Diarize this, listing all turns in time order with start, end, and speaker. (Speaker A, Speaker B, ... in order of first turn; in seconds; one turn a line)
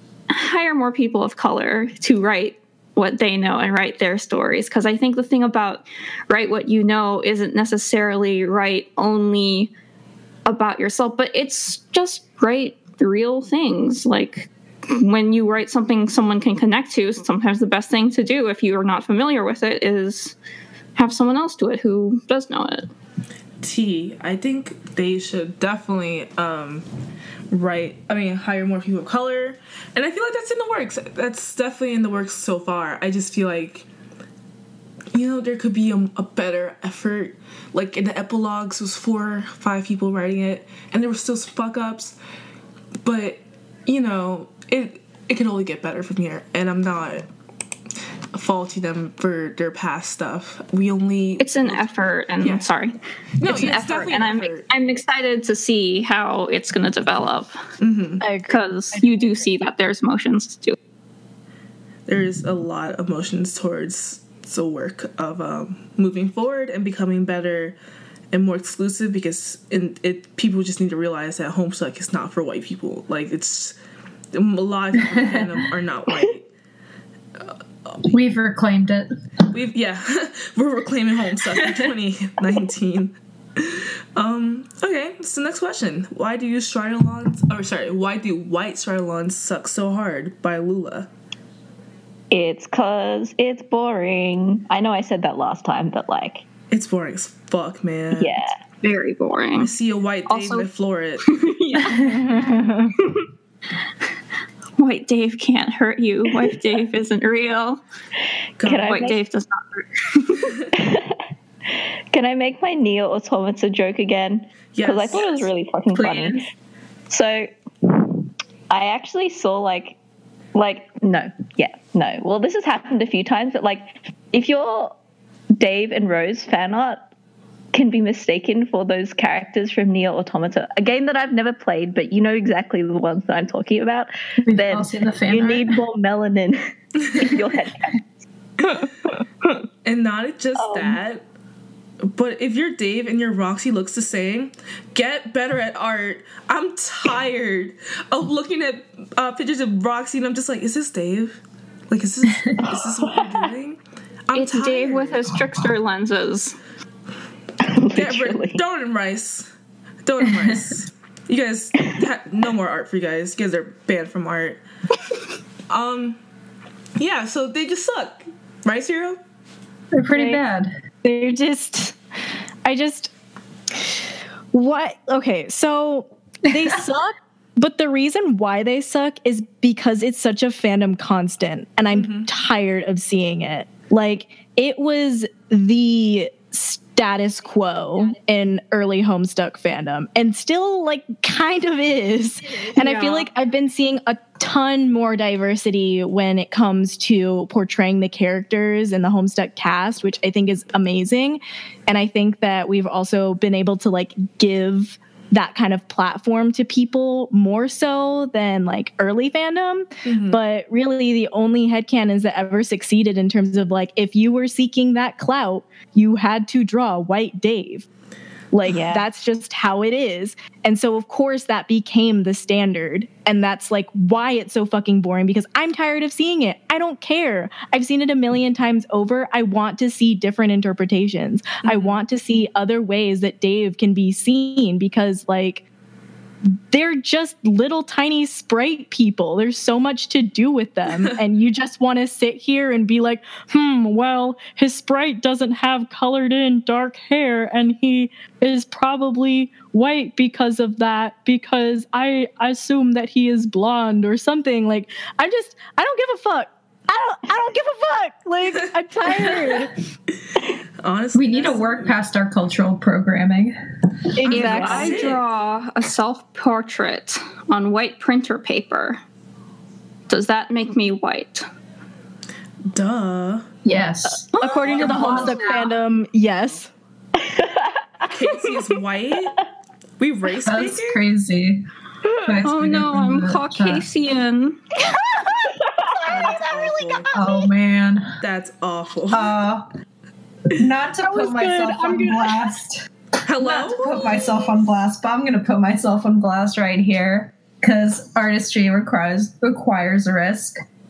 Speaker A: 0.3-9.7
Speaker A: 10.5-20.4
Speaker A: 21.0-22.9
Speaker B: 23.6-26.9
Speaker B: 27.5-33.9
Speaker B: 35.1-42.1
Speaker B: 43.0-47.3
Speaker B: 48.3-52.7
Speaker A: 51.4-57.6
Speaker B: 53.4-54.7
Speaker B: 57.8-58.2
Speaker C: 58.2-59.5
Speaker A: 58.5-60.8
Speaker B: 62.1-67.8
Speaker B: 68.3-73.8
Speaker B: 74.3-76.5
Speaker D: 75.1-75.4
Speaker D: 78.1-79.1
Speaker B: 79.5-91.1
Speaker E: 92.3-96.5
Speaker B: 96.7-98.5
Speaker E: 98.2-98.6
Speaker A: 98.8-99.7
Speaker B: 99.6-101.3
Speaker A: 100.3-100.7
Speaker A: 101.3-102.4
Speaker D: 101.8-102.3
Speaker C: 102.0-102.9
Speaker A: 103.0-103.3
Speaker A: 104.8-107.8
Speaker B: 108.6-109.1
Speaker E: 108.6-109.2
Speaker A: 108.9-110.5
Speaker E: 110.7-111.2
Speaker E: 111.7-116.4
Speaker B: 114.7-116.4
Speaker E: 117.1-118.2
Speaker E: 118.7-120.0
Speaker E: 120.5-125.0
Speaker E: 125.6-127.1
Speaker E: 127.7-136.6
Speaker D: 134.5-135.8
Speaker E: 137.1-138.0
Speaker B: 139.8-141.2
Speaker E: 140.6-141.0
Speaker B: 142.0-155.3
Speaker E: 152.6-153.5
Speaker A: 154.3-156.6
Speaker E: 157.6-158.6
Speaker B: 157.9-159.5
Speaker B: 160.1-164.6
Speaker B: 165.7-166.2
Speaker B: 167.0-169.2
Speaker D: 169.9-170.7
Speaker C: 170.1-170.4
Speaker C: 171.0-172.0
Speaker C: 172.7-173.1
Speaker C: 174.5-217.9
Speaker D: 176.5-176.8
Speaker B: 181.9-182.3
Speaker A: 192.8-193.2
Speaker B: 210.1-210.4
Speaker C: 218.5-235.7
Speaker E: 218.7-219.1
Speaker B: 231.6-232.0
Speaker C: 236.7-259.7
Speaker B: 260.8-262.0
Speaker D: 261.1-263.6
Speaker C: 264.2-265.1
Speaker B: 264.3-265.2
Speaker A: 264.3-269.0
Speaker A: 270.1-271.5
Speaker B: 272.7-273.6
Speaker D: 273.6-275.3
Speaker C: 274.3-276.7
Speaker B: 274.4-275.4
Speaker A: 274.6-275.7
Speaker E: 277.2-277.8
Speaker B: 278.1-279.4
Speaker B: 280.0-281.0
Speaker D: 280.4-281.6
Speaker D: 282.2-283.9
Speaker A: 282.4-284.6
Speaker E: 285.6-286.1
Speaker B: 286.0-287.1
Speaker A: 286.2-287.4
Speaker D: 287.1-288.1
Speaker B: 288.2-289.4
Speaker D: 289.1-289.6
Speaker D: 290.5-292.9
Speaker C: 291.0-292.5
Speaker B: 293.3-294.4
Speaker D: 293.5-300.6